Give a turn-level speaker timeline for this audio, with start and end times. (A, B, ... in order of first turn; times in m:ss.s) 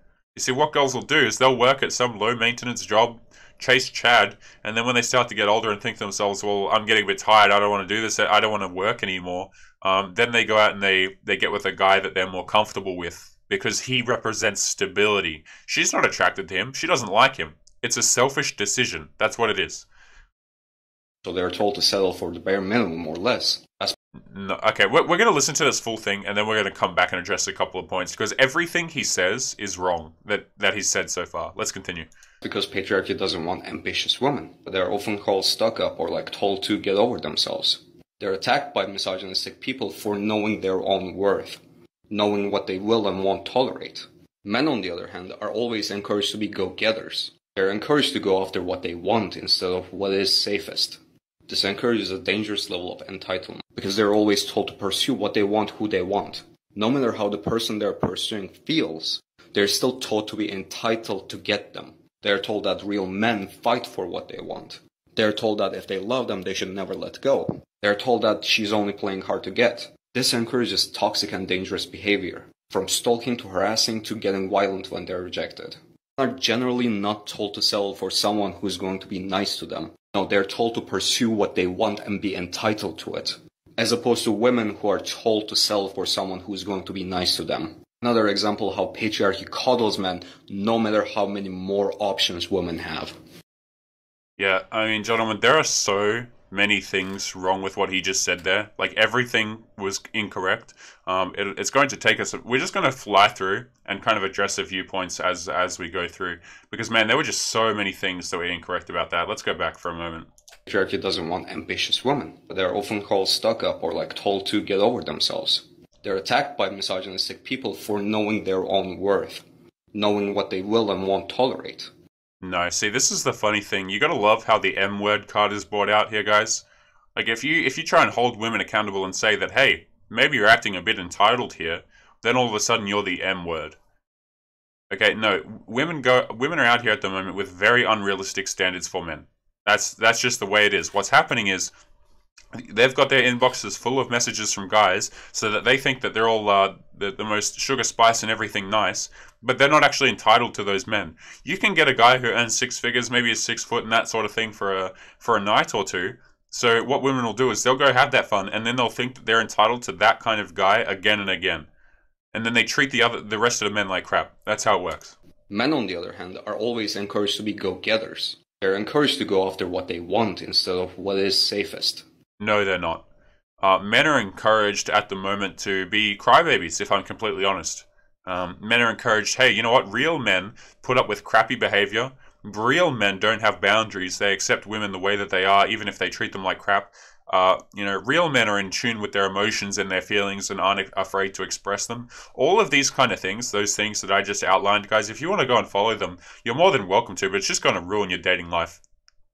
0:00.4-0:19.9 A
0:21.2-0:23.9 B
0:24.3-0:32.1 A
0:32.4-1:33.2 B
1:34.4-1:50.3 A
1:50.7-2:01.9 B
2:02.4-2:06.6 A
2:07.2-2:13.8 A
2:14.9-2:21.7 A
2:22.6-2:41.7 A
2:42.3-2:45.2 A
2:45.5-2:52.0 B
2:52.4-2:53.0 A
2:53.6-3:18.8 A